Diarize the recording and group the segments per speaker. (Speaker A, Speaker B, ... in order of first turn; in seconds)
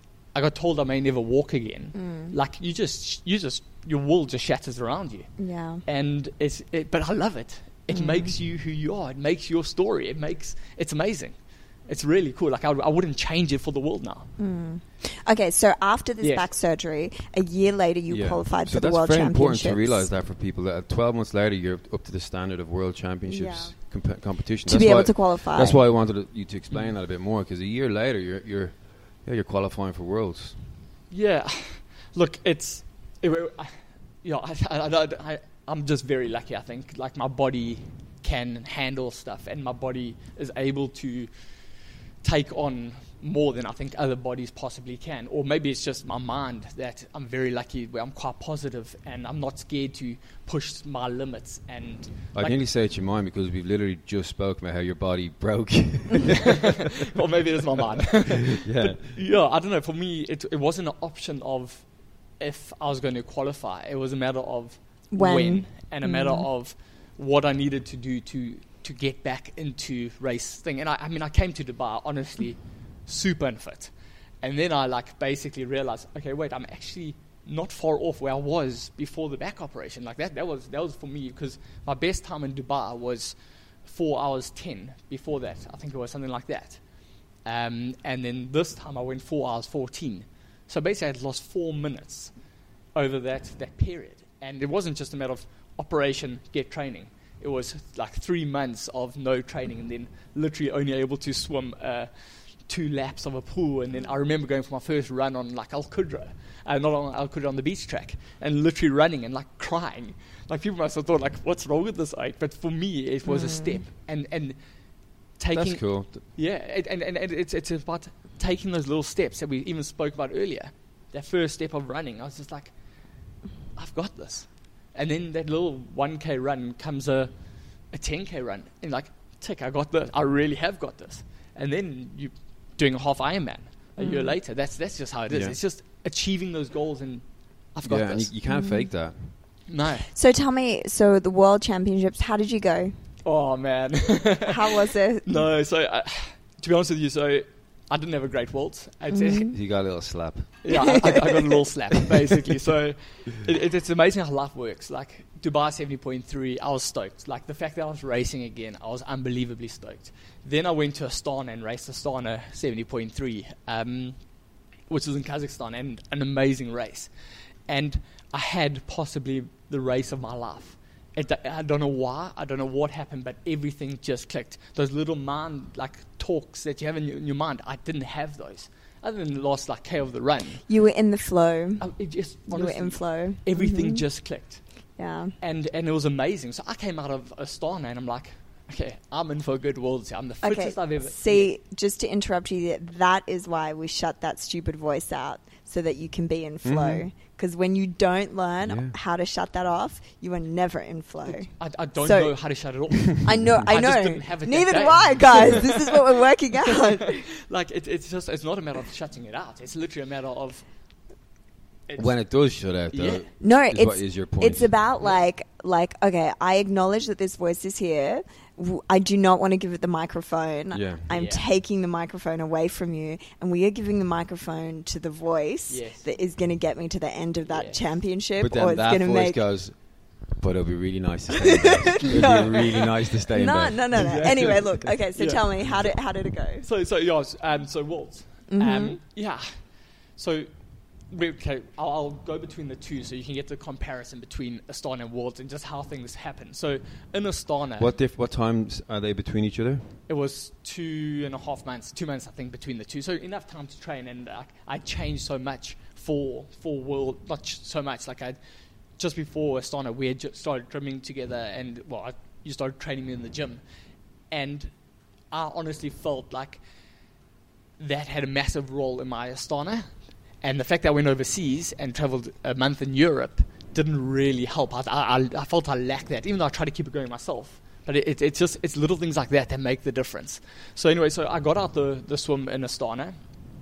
Speaker A: 0.3-14.3, 16.2-16.5, 31.1-52.6, 57.1-92.4, 92.9-122.9, 123.7-138.3, 139.7-140.1, 143.2-149.6, 150.6-167.1, 167.7-180.7, 181.8-184.8, 185.4-191.5, 201.2-205.9, 207.4-210.7, 211.9-213.3, 221.1-221.4, 225.7-226.1, 227.5-227.8, 233.9-236.0, 236.6-247.9, 250.1-258.4, 258.9-263.6, 264.3-266.6, 267.8-283.2
Speaker B: 1.9-2.4, 5.4-5.8, 7.9-8.3, 14.4-20.1, 23.3-25.8, 65.1-66.5, 113.3-113.8, 134.0-134.4, 138.5-138.9, 140.1-143.0, 144.5-145.5, 149.1-149.5, 150.7-151.5, 180.7-184.2, 185.0-185.3, 190.4-207.3, 213.4-229.4, 231.5-236.7, 238.5-239.0
Speaker C: 18.1-30.6, 52.3-56.7, 58.5-59.2, 115.5-116.2, 135.3-135.6, 137.8-139.4, 149.5-150.6, 196.6-197.1, 198.6-198.9, 203.4-203.7, 205.3-205.6, 212.0-214.8, 220.7-221.1, 228.4-234.6, 247.8-250.0